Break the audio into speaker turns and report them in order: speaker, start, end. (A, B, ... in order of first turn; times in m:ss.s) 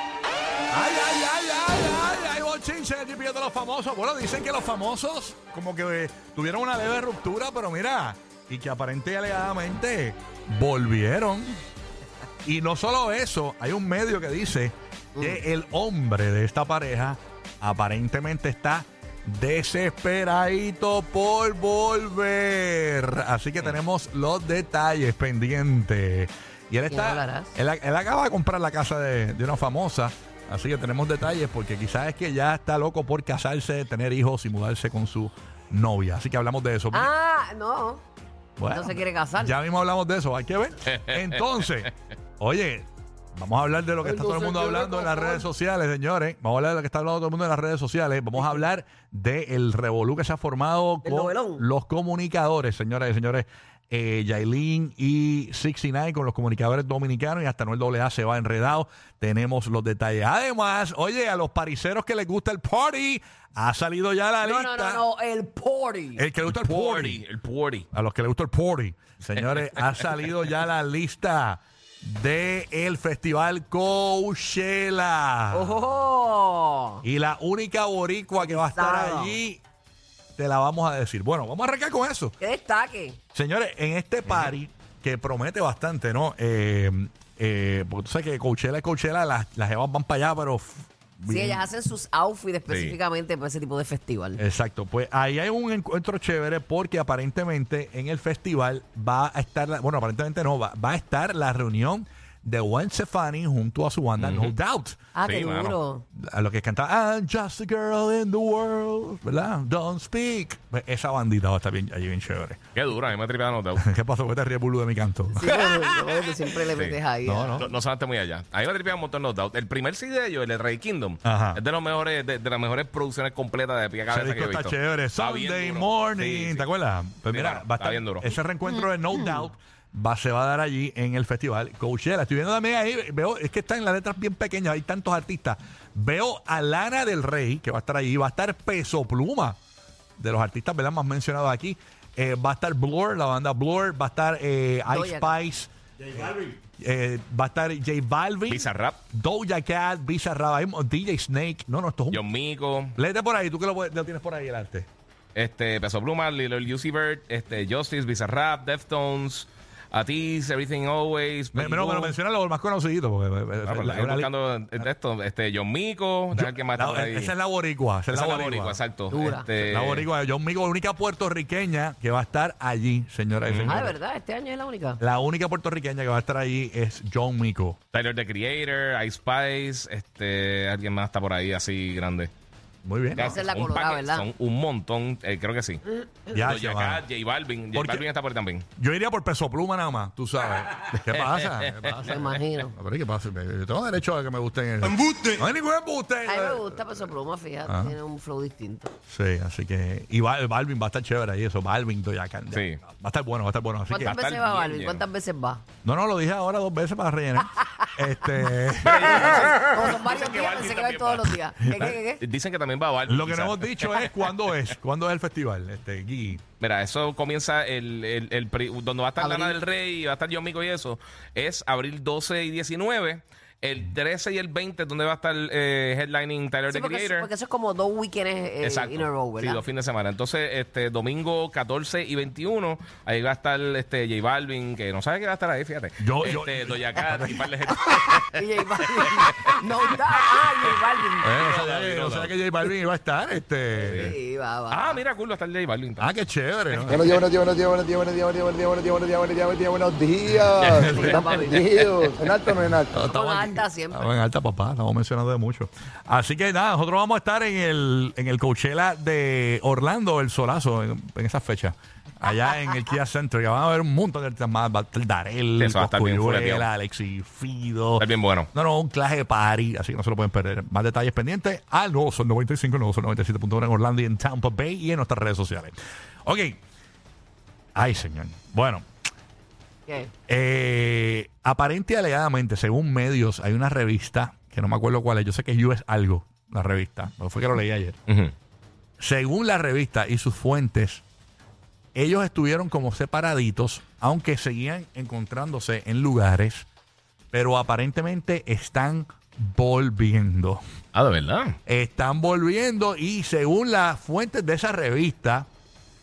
0:00.7-0:11.6 A
0:12.4-0:37.1 A
0:26.9-0:27.5 B
0:36.9-0:38.0 B
0:38.6-1:05.0 A
0:38.7-0:39.5 B
0:40.9-0:41.9 C
0:44.0-0:45.4 B
0:51.0-0:51.6 B
1:04.4-1:06.2 B
1:06.2-1:07.2 A
1:06.4-1:07.9 C
1:07.9-1:15.8 A
1:15.5-1:17.0 B
1:17.0-1:19.6 A
1:18.4-1:19.4 B
1:20.4-1:22.4 A
1:22.4-1:23.2 B
1:23.3-1:31.7 A
1:24.3-1:24.5 C
1:31.3-1:34.4 B
1:32.7-1:33.0 C
1:34.4-1:45.0 A
1:44.2-1:44.5 C
1:45.1-1:46.0 B
1:45.2-1:45.8 C
1:46.2-1:52.7 A
1:52.7-1:53.8 C
1:53.7-1:55.4 A
1:55.3-1:57.7 B
1:55.5-1:57.0 C
1:57.2-1:57.7 A
1:57.6-2:06.7 C
2:01.2-2:01.6 A
2:04.1-2:19.6 A
2:07.3-2:08.3 C
2:20.2-2:32.2 A
2:24.9-2:25.3 B
2:28.5-2:29.0 C
2:32.1-2:32.9 C
2:32.9-2:34.9 A
2:35.3-2:42.2 C
2:41.5-2:44.8 A
2:43.6-2:47.3 C
2:46.3-2:54.0 A
2:48.1-2:50.1 C
2:49.1-2:49.5 B
2:53.4-2:53.8 C
2:53.7-2:55.0 B
2:55.0-2:57.8 A
2:57.9-3:02.3 C
3:02.8-3:03.4 A
3:03.2-3:05.8 C
3:03.2-3:04.2 B
3:06.3-3:07.0 A
3:06.3-3:08.6 C
3:07.7-3:08.0 A
3:08.8-3:17.1 A
3:11.4-3:12.1 C
3:12.0-3:12.7 B
3:16.2-3:18.9 B
3:17.6-3:18.0 A
3:19.1-3:24.2 A
3:22.5-3:22.8 C
3:23.9-3:25.6 B
3:24.0-3:25.0 C
3:25.8-3:29.4 A
3:28.8-3:31.4 C
3:29.0-3:32.2 B
3:31.6-3:32.0 A
3:32.2-3:34.3 C
3:33.0-3:36.4 A
3:36.6-3:47.3 C
3:39.2-3:39.6 B
3:46.7-3:49.6 B
3:48.6-3:58.3 C
3:56.0-3:57.7 A
3:58.2-4:01.3 B
3:59.1-3:59.5 C
4:01.2-4:04.1 A
4:01.3-4:02.3 C
4:03.8-4:04.1 C
4:03.9-4:05.0 B
4:04.7-4:06.1 C
4:06.0-4:07.2 A
4:06.7-4:07.0 C
4:06.9-4:12.9 D
4:10.3-4:11.2 A
4:10.6-4:11.2 C
4:10.9-4:11.6 B
4:12.2-4:36.6 A
4:13.0-4:14.1 B
4:25.6-4:26.7 C
4:28.0-4:28.5 C
4:37.7-4:38.8 A
4:40.3-4:48.0 A
4:48.1-4:48.3 C
4:49.0-4:51.0 A
4:51.9-4:56.7 A
4:57.3-5:00.6 A
5:00.9-5:01.6 C
5:01.6-5:05.5 A